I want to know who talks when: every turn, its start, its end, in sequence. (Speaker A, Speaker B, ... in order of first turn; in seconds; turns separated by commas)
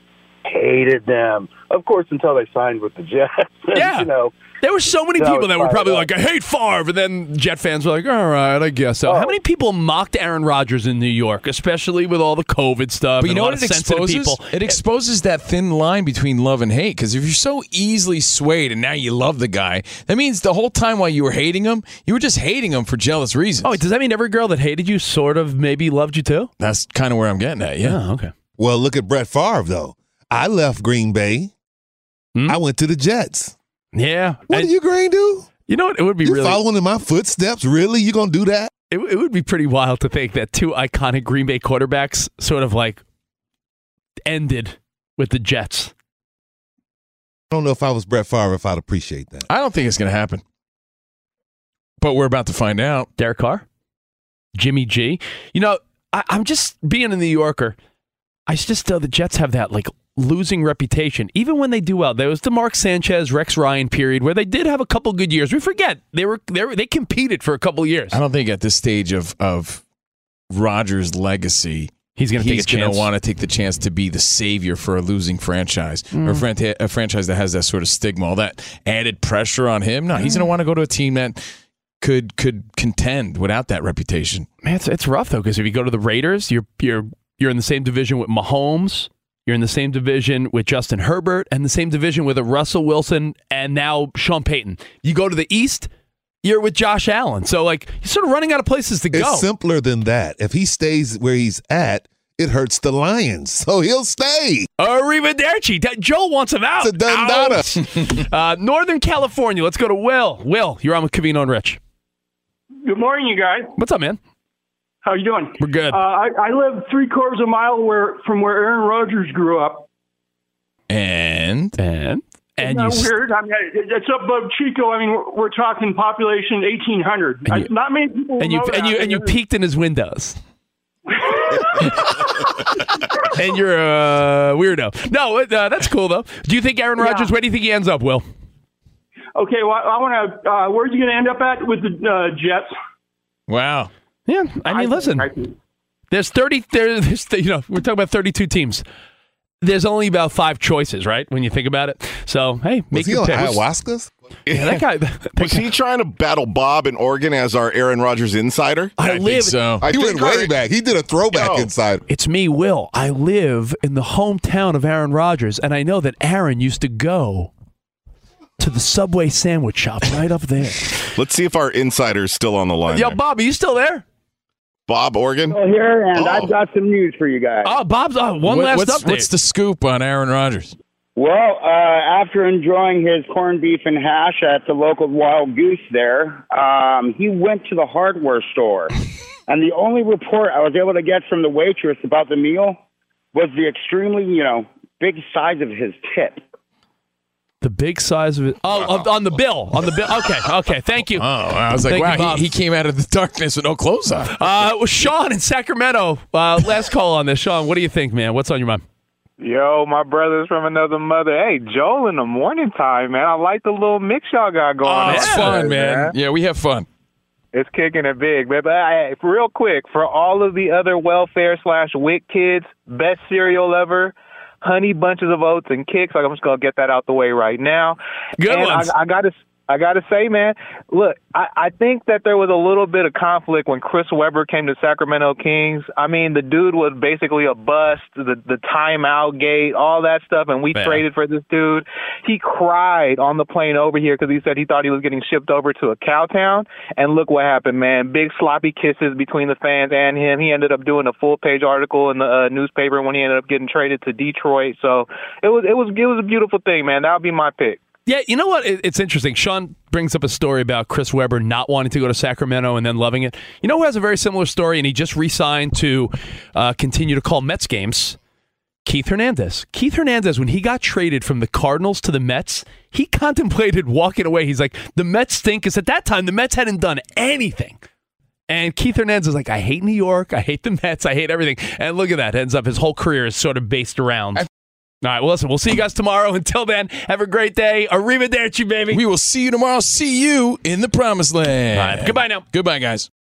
Speaker A: 0.5-4.3, Speaker B: 3.7-4.1, Speaker B: 4.6-14.8, Speaker A: 5.2-6.1, Speaker A: 9.1-9.4, Speaker C: 13.2-23.8, Speaker B: 23.6-26.5, Speaker C: 26.6-28.0, Speaker B: 27.8-28.3, Speaker D: 28.6-31.5, Speaker D: 32.5-33.5, Speaker B: 33.9-34.7, Speaker D: 34.5-35.5, Speaker B: 35.7-36.6, Speaker D: 36.2-38.7, Speaker B: 38.9-43.0, Speaker B: 44.3-45.9, Speaker D: 47.5-49.5, Speaker C: 49.5-50.4, Speaker C: 52.0-53.1, Speaker B: 53.2-53.6, Speaker B: 54.5-57.8, Speaker B: 58.5-68.2, Speaker C: 68.1-69.8, Speaker C: 70.5-81.4, Speaker B: 72.2-73.1, Speaker B: 76.1-76.4, Speaker B: 80.2-80.5, Speaker C: 82.0-84.5, Speaker B: 84.6-95.9, Speaker B: 96.4-99.5, Speaker D: 99.1-104.7, Speaker B: 104.8-111.8, Speaker D: 106.8-107.9, Speaker E: 112.8-113.7, Speaker B: 113.8-114.2, Speaker E: 115.0-119.9, Speaker B: 115.6-116.0, Speaker C: 120.9-121.8, Speaker B: 121.8-123.1, Speaker E: 122.6-129.3, Speaker B: 128.4-130.4, Speaker E: 131.1-132.1, Speaker B: 131.8-132.2, Speaker B: 133.3-138.2, Speaker E: 137.0-137.3, Speaker E: 139.4-142.7, Speaker C: 143.5-143.9, Speaker B: 144.3-145.3, Speaker E: 144.7-145.5, Speaker B: 146.1-148.8, Speaker B: 149.6-153.6, Speaker D: 152.9-154.1, Speaker F: 154.5-154.8, Speaker B: 154.5-155.6, Speaker F: 155.4-158.9, Speaker B: 159.0-159.6, Speaker C: 159.0-159.8, Speaker F: 159.8-160.6, Speaker D: 159.8-162.0, Speaker F: 161.3-161.7, Speaker B: 162.1-167.5, Speaker B: 168.6-170.9, Speaker F: 171.1-173.2, Speaker B: 172.9-174.0, Speaker F: 174.9-175.6, Speaker G: 175.5-177.7, Speaker F: 176.1-176.5, Speaker B: 177.7-179.3, Speaker C: 178.5-180.8, Speaker G: 181.2-188.9, Speaker G: 189.5-192.8, Speaker G: 193.3-196.4, Speaker B: 197.6-201.3, Speaker C: 201.2-204.7, Speaker B: 201.9-202.4, Speaker B: 204.3-208.8, Speaker H: 209.4-215.7, Speaker C: 214.8-216.9, Speaker B: 215.1-215.6, Speaker H: 217.5-257.8, Speaker B: 228.4-228.9, Speaker B: 240.7-241.0, Speaker B: 258.1-268.2, Speaker B: 268.9-277.8, Speaker B: 278.5-284.4, Speaker B: 285.0-289.0, Speaker C: 288.9-293.1, Speaker B: 291.7-292.4